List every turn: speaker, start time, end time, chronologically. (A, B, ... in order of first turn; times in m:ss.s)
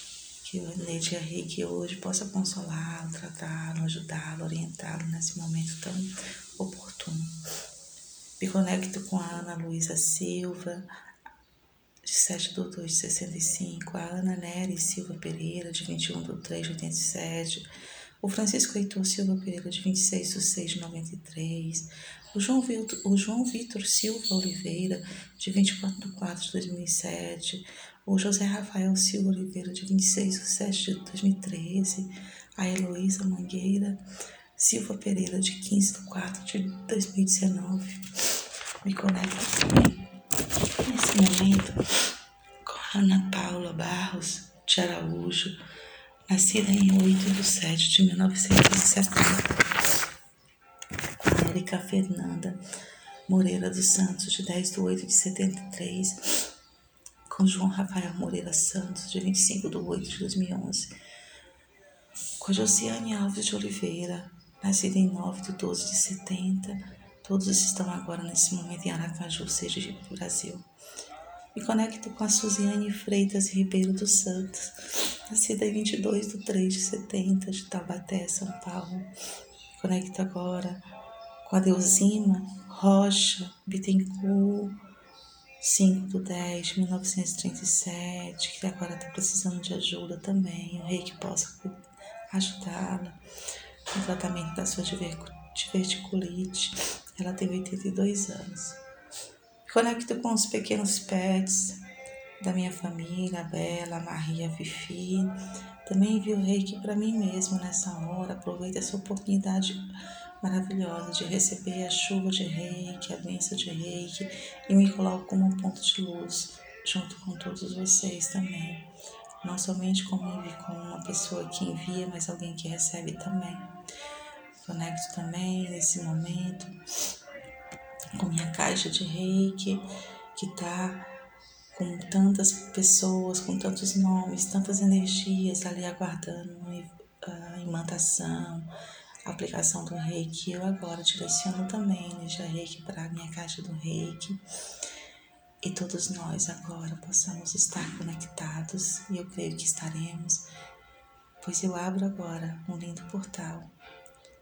0:00.4-0:07.3 A
0:08.4-0:10.9 A
0:12.0-0:17.6 A
0:18.2-0:34.0 A
0:34.6-0:40.1 A
0:40.8-0:41.8 A
0:42.6-0:45.5 A
0:46.3-0:49.6 A
0:51.2-0:52.6 A
0:53.3-0:56.5 A
0:57.2-1:00.9 A
1:02.4-1:10.6 A
1:11.5-1:19.1 A
1:19.7-1:20.8 A
1:21.4-1:24.8 A
1:25.6-1:33.2 A
1:33.9-1:38.8 A
1:39.6-1:41.8 A
1:42.4-1:49.9 A
1:50.4-1:58.9 A
1:59.4-2:03.7 A
2:04.6-2:06.7 A
2:08.1-2:11.1 A
2:11.7-2:18.7 A
2:19.2-2:24.4 A
2:25.6-2:30.5 A
2:31.4-2:33.7 A